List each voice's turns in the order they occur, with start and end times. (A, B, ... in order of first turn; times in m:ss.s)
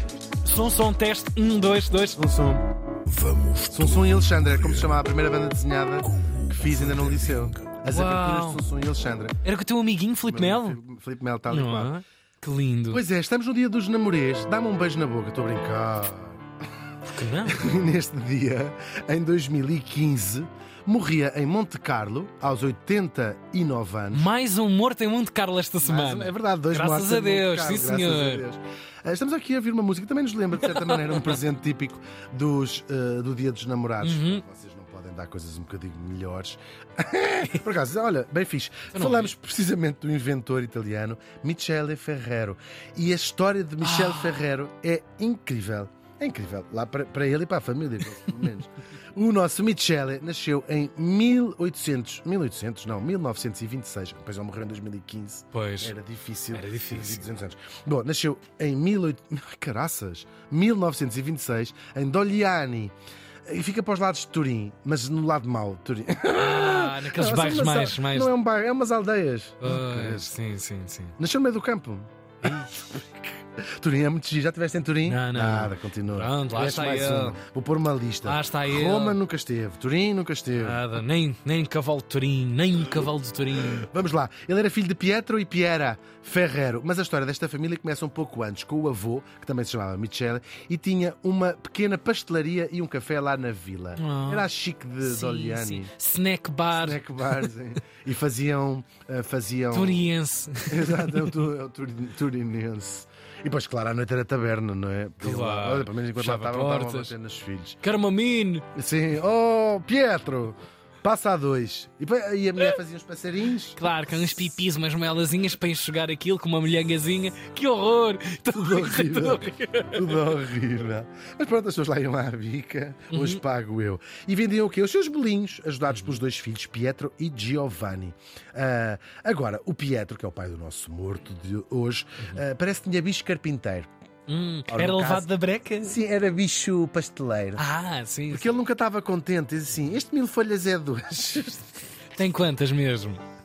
0:00.4-0:02.2 A
0:02.2-0:02.6 B
0:03.0-0:05.0 C
0:03.7-0:09.3 B
0:06.0-0:07.7 C
0:07.9-0:08.6 A
0:09.4-0:10.8 A
0:10.2-0:11.9 B
0:11.5-0:13.0 A
0:12.9-0:16.5 B
0:17.0-0:17.7 A
0:17.4-0:24.3 B
0:24.1-0:28.4 A
0:25.8-1:02.9 B
0:30.6-0:31.4 A
0:34.0-0:34.4 A
0:38.9-0:39.3 A
0:43.8-0:44.4 A
0:55.5-0:55.9 A
0:56.5-0:57.2 A
1:03.4-1:10.3 B
1:06.3-1:08.3 A
1:09.6-1:11.2 A
1:11.2-1:20.8 B
1:12.4-1:12.8 A
1:15.0-1:17.4 A
1:18.2-1:19.2 A
1:20.6-1:23.9 A
1:23.6-1:35.9 B
1:34.0-1:34.5 A
1:35.0-1:37.5 A
1:36.7-1:40.1 B
1:39.7-1:41.3 A
1:40.7-1:47.8 B
1:45.2-1:47.1 A
1:47.8-1:48.7 A
1:48.7-1:54.5 B
1:53.7-2:00.3 A
1:58.5-2:13.9 B
2:03.1-2:03.4 A
2:05.9-2:06.2 A
2:14.3-2:16.0 A
2:14.7-2:17.6 B
2:17.6-2:18.5 A
2:18.3-2:21.7 B
2:22.2-2:23.2 A